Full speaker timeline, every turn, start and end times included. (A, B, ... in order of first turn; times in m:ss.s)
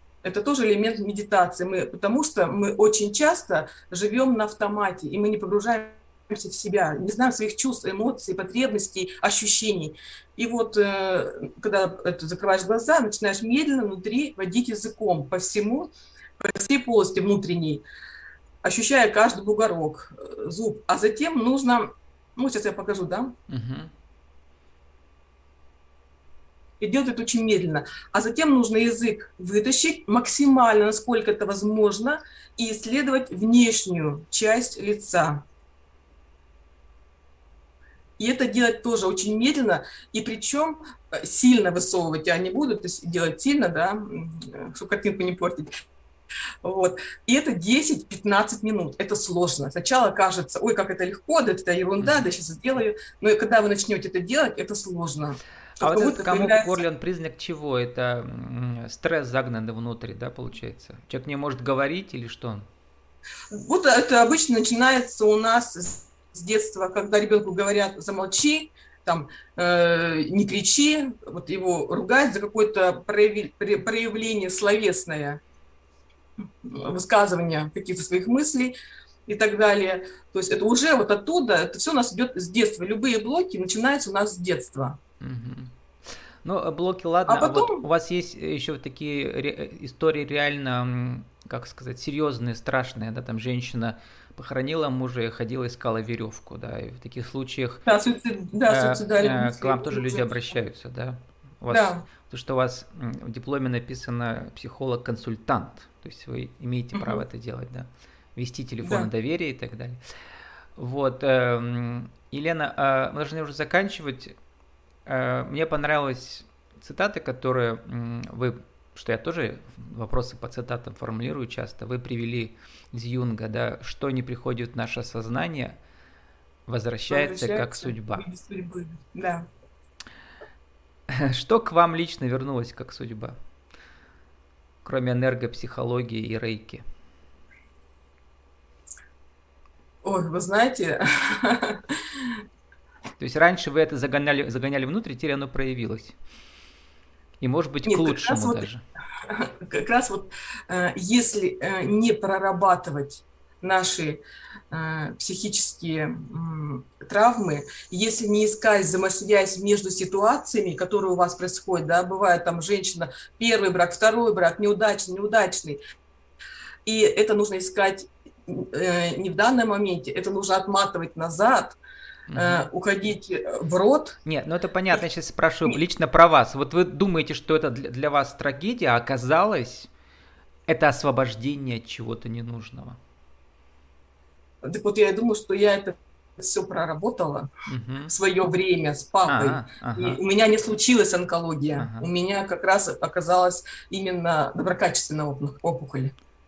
0:00.2-0:17.8 A
0:18.6-0:23.4 A
0:23.5-0:23.9 B
0:26.8-0:35.4 A
0:38.2-0:45.7 A
0:46.6-0:56.8 A
0:55.8-1:02.7 B
1:03.5-1:15.4 A
1:16.6-1:18.8 A
1:19.3-1:25.0 A
1:25.2-1:25.7 B
1:26.4-1:37.8 B
1:27.3-1:27.8 A
1:37.8-1:40.3 A
1:38.7-1:50.0 B
1:41.7-1:42.0 A
1:46.9-1:47.2 A
1:48.8-1:49.1 A
1:50.8-1:54.3 B
1:55.1-2:05.8 B
2:06.7-2:08.2 B
2:07.1-2:09.5 A
2:11.1-2:13.4 B
2:14.8-2:16.8 B
2:20.0-2:22.4 A
2:23.2-2:26.2 B
2:27.4-2:28.8 B
2:27.8-2:28.7 A
2:29.3-2:45.8 A
2:46.9-2:51.8 A
2:52.3-2:52.7 B
2:52.4-2:54.2 A
2:54.2-2:59.9 B
3:00.7-3:03.0 B
3:04.6-3:07.5 A
3:07.7-3:08.1 B
3:08.1-3:16.1 A
3:09.3-3:10.2 B
3:11.8-3:12.1 B